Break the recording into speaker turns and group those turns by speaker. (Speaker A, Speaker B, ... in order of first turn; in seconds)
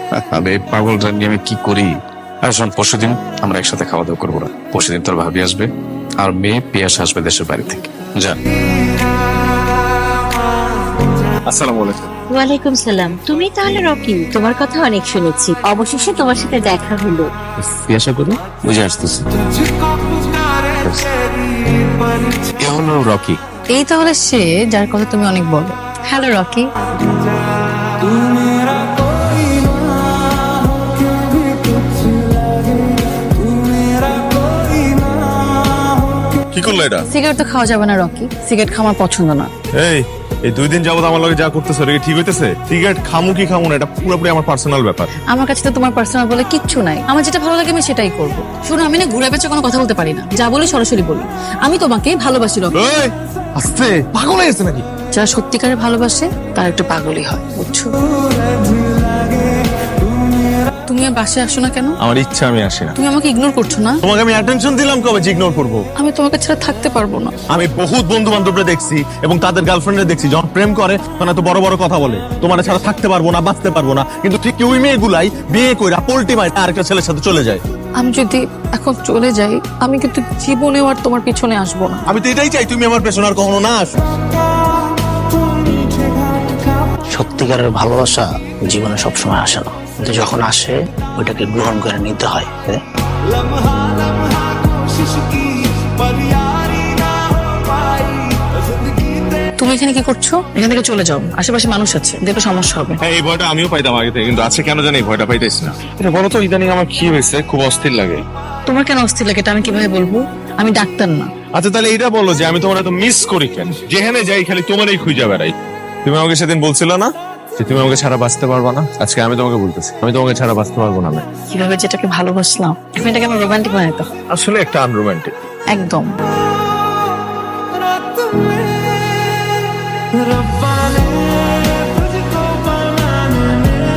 Speaker A: 0.2-1.9, 2.4-5.7, 6.2-8.4, 17.6-19.2, 20.8-21.1, 22.6-23.4
Speaker B: 11.5-12.1, 36.5-37.1, 39.8-45.1, 52.8-54.8, 62.0-62.9, 64.0-65.8, 67.5-77.6, 82.1-83.9, 103.0-108.2, 111.5-115.5, 116.0-121.2, 124.3-125.3
Speaker C: 12.3-17.3
Speaker D: 23.7-26.7, 37.1-39.5, 45.3-52.7, 55.1-57.9, 60.9-62.0, 63.0-64.0, 66.0-67.4, 78.0-82.1, 99.6-103.0, 108.7-111.3, 121.5-124.1, 125.7-126.1
Speaker E: 87.2-92.8